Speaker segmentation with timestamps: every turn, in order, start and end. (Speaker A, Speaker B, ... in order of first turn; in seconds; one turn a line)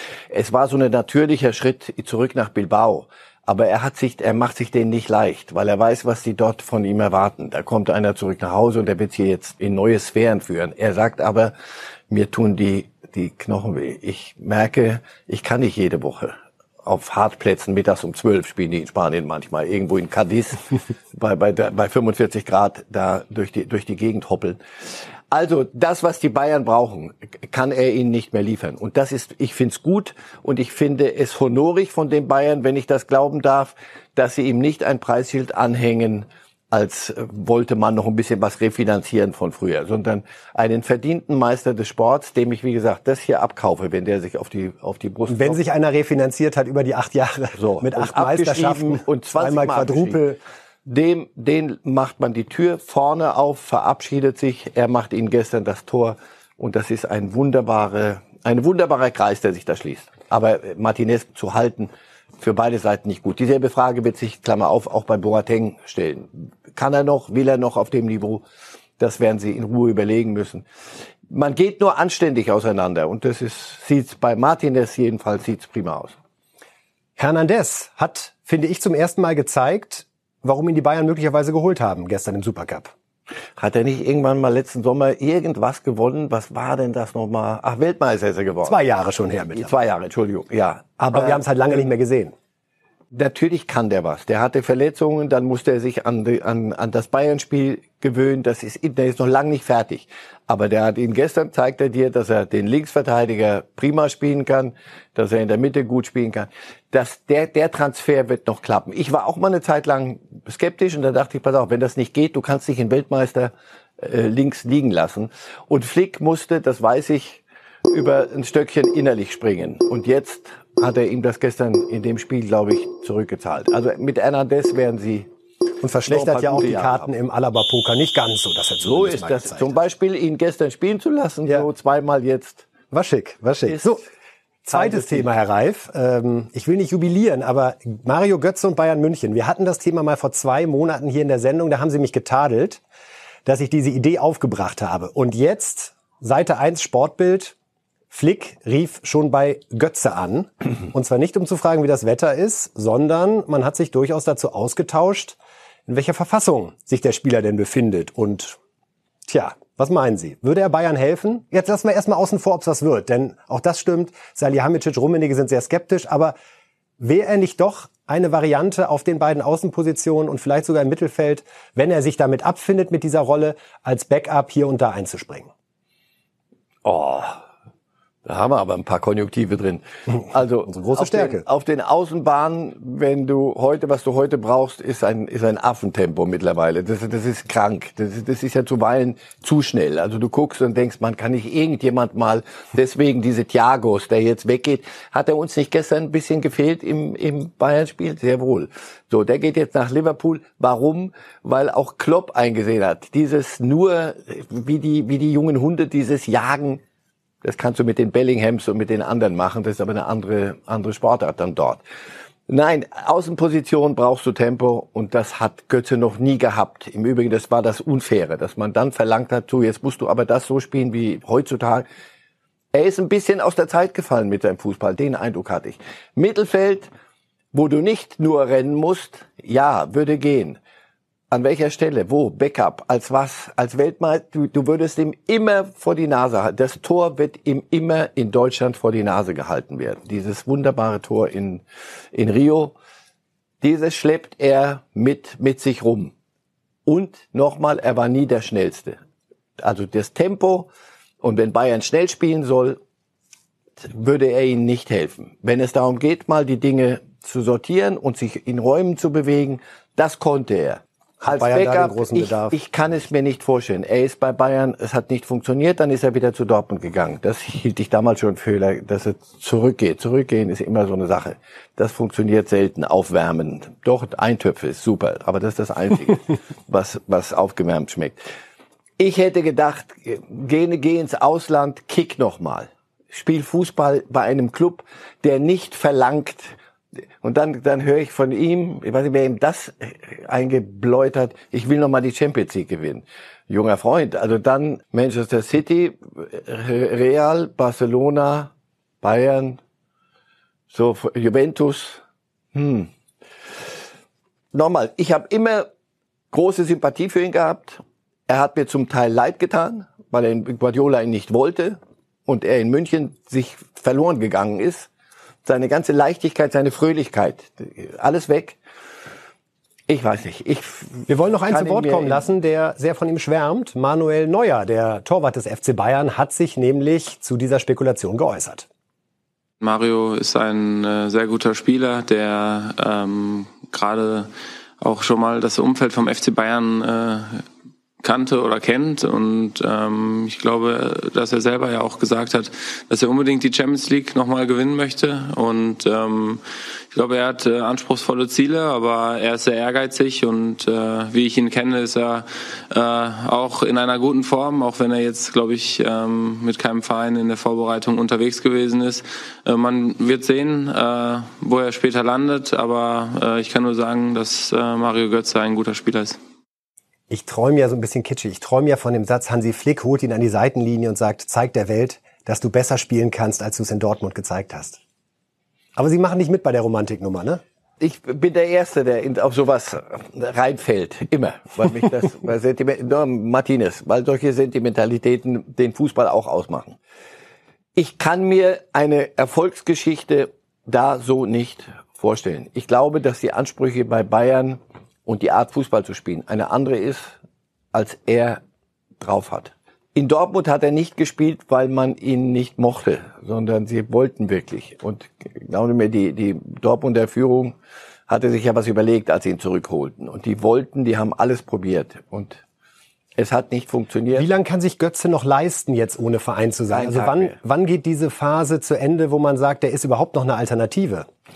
Speaker A: 0.3-11.5
Speaker A: 12.1-24.6
Speaker A: 25.3-45.6
Speaker B: 45.3-50.4
Speaker A: 47.5-50.2
Speaker A: 50.8-68.4
Speaker A: 69.0-70.7
Speaker A: 71.3-76.1
Speaker B: 77.2-82.9
Speaker A: 83.6-88.8
Speaker B: 88.6-89.7
Speaker A: 89.5-91.4
Speaker B: 91.1-92.3
Speaker A: 93.1-125.3
Speaker B: 125.8-129.7
Speaker A: 126.0-127.1
Speaker A: 128.8-132.7
Speaker B: 132.9-134.0
Speaker A: 133.6-134.0
Speaker B: 134.6-142.8
Speaker A: 134.7-135.3
Speaker B: 143.4-147.5
Speaker B: 148.1-158.6
Speaker B: 159.3-166.3
Speaker B: 167.0-175.5
Speaker A: 176.8-177.4
Speaker A: 178.2-206.8
Speaker B: 180.7-181.4
Speaker A: 207.4-211.8
Speaker A: 212.5-221.9
Speaker A: 222.7-226.9
Speaker A: 227.5-230.6
Speaker A: 231.3-242.7
Speaker A: 243.6-246.1
Speaker A: 246.8-249.0
Speaker A: 249.6-250.7
Speaker A: 251.2-252.8
Speaker A: 253.8-278.2
Speaker B: 261.2-262.6
Speaker A: 279.0-286.6
Speaker A: 287.2-298.5
Speaker A: 299.0-299.6
Speaker A: 300.7-302.0
Speaker A: 302.5-302.9
Speaker A: 304.5-305.7
Speaker A: 306.3-314.9
Speaker A: 315.4-318.6
Speaker A: 319.9-322.3
Speaker B: 321.1-328.6
Speaker C: 329.6-334.3
Speaker C: 334.8-337.4
Speaker C: 338.0-346.4
Speaker C: 346.9-366.2
Speaker B: 367.1-374.8
Speaker B: 375.8-377.4
Speaker A: 377.8-386.8
Speaker A: 387.8-397.1
Speaker A: 397.7-398.4
Speaker A: 399.0-407.5
Speaker A: 408.1-412.4
Speaker A: 413.2-414.3
Speaker B: 414.1-421.1
Speaker A: 416.7-417.4